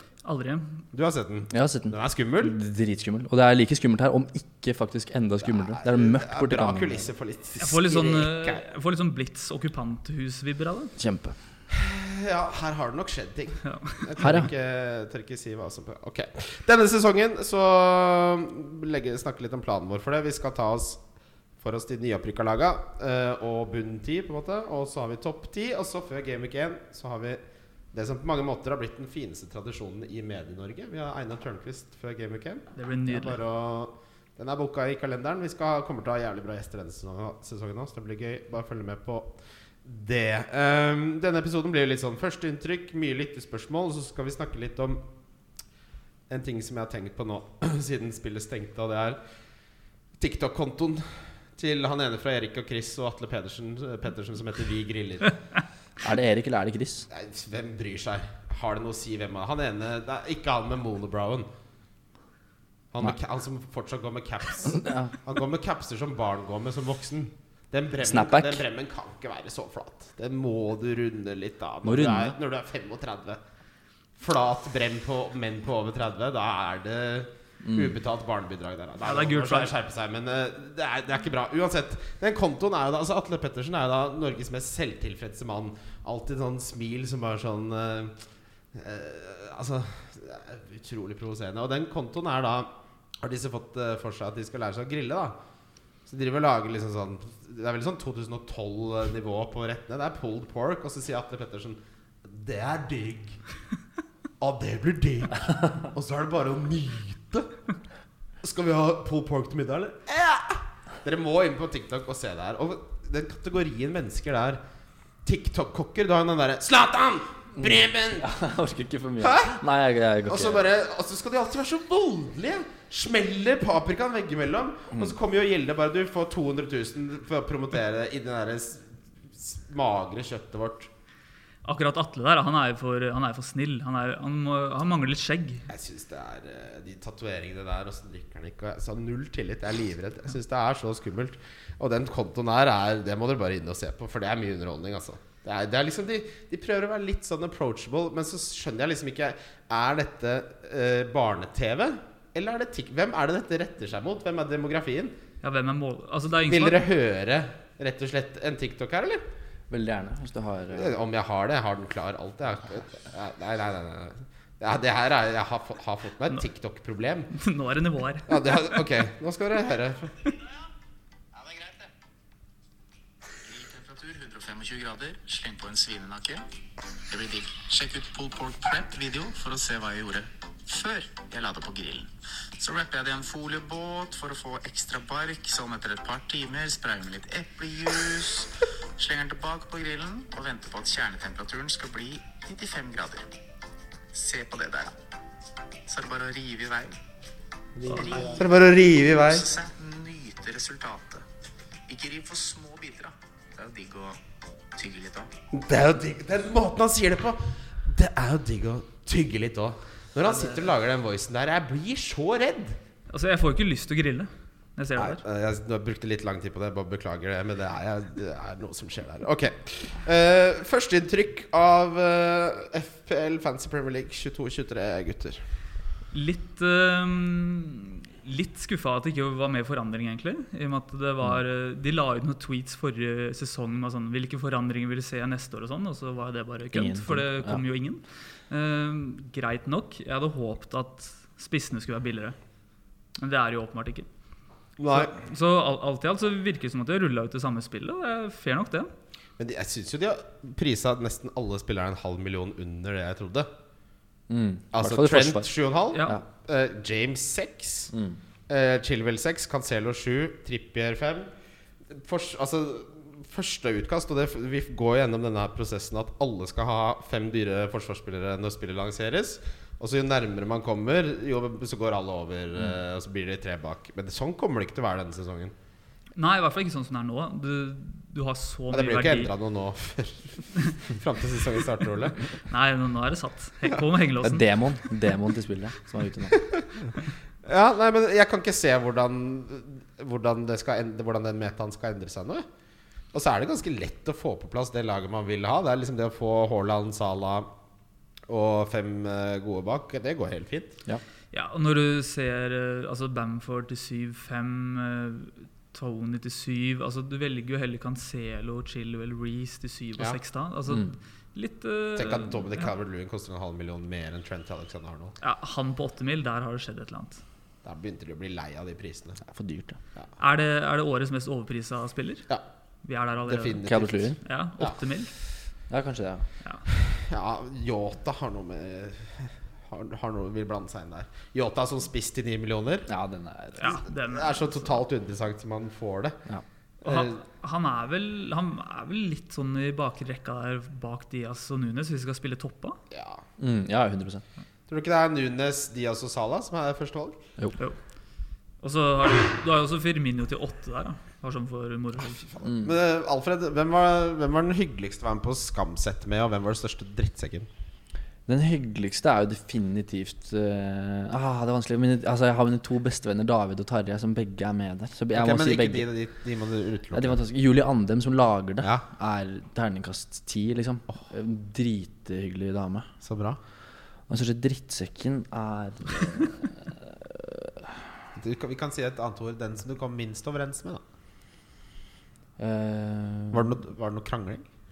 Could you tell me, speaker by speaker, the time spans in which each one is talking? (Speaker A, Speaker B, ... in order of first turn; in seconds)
Speaker A: 0.2-0.8, 7.6-10.9, 13.7-14.0, 32.8-33.4, 79.0-79.7, 131.6-135.7, 155.4-156.8, 167.3-168.8, 210.2-210.6, 213.1-215.2, 226.1-242.3, 243.2-244.1, 244.9-248.9, 276.1-279.3, 282.5-284.5, 301.3-312.7, 315.2-317.2, 320.2-322.3, 322.8-323.6, 324.2-325.1, 333.6-334.8, 336.8-342.8, 348.6-352.2
Speaker B: 0.9-2.6, 5.5-8.6, 11.7-21.0, 21.6-27.4, 27.9-45.0, 46.3-49.2, 50.2-55.4, 57.1-61.5, 62.9-73.4, 74.2-88.1, 88.7-92.7, 93.2-95.3, 96.0-103.4, 104.4-107.5, 108.4-114.6, 115.2-118.3, 119.2-119.6, 120.3-130.9, 135.7-155.1, 156.5-159.2, 160.7-167.3, 168.3-170.2, 197.8-199.5, 205.5-212.8, 215.0-225.4, 244.8-245.2, 249.4-253.5, 254.7-257.9, 258.5-261.3, 261.9-275.5, 278.7-282.2, 286.4-286.6, 287.4-292.4, 293.1-297.5, 298.3-300.8, 311.9-315.1, 317.6-319.2, 323.3-324.8, 326.7-332.9, 333.6-336.2, 336.8-337.2, 342.9-343.2, 344.7-347.2, 352.0-357.5, 365.1-367.2, 373.0-373.4, 378.1-380.8, 383.3-384.5
Speaker C: 1.5-7.0, 11.0-11.3, 14.2-14.5, 56.0-57.1, 64.7-65.1, 68.0-68.6, 71.8-72.3, 77.6-77.9, 117.6-120.7, 159.7-160.9, 236.7-237.6, 254.3-255.5, 257.9-258.2, 284.2-286.4, 319.2-319.8, 323.6-324.2, 325.7-326.2, 332.9-333.8, 343.4-344.2, 352.4-352.7, 358.3-365.9, 366.9-372.9, 374.1-377.9, 382.4-383.6
Speaker D: 171.4-171.9, 173.4-176.4, 177.1-193.3, 194.1-194.9, 195.8-197.0, 197.8-198.5, 199.3-201.2, 201.9-204.2, 204.7-205.3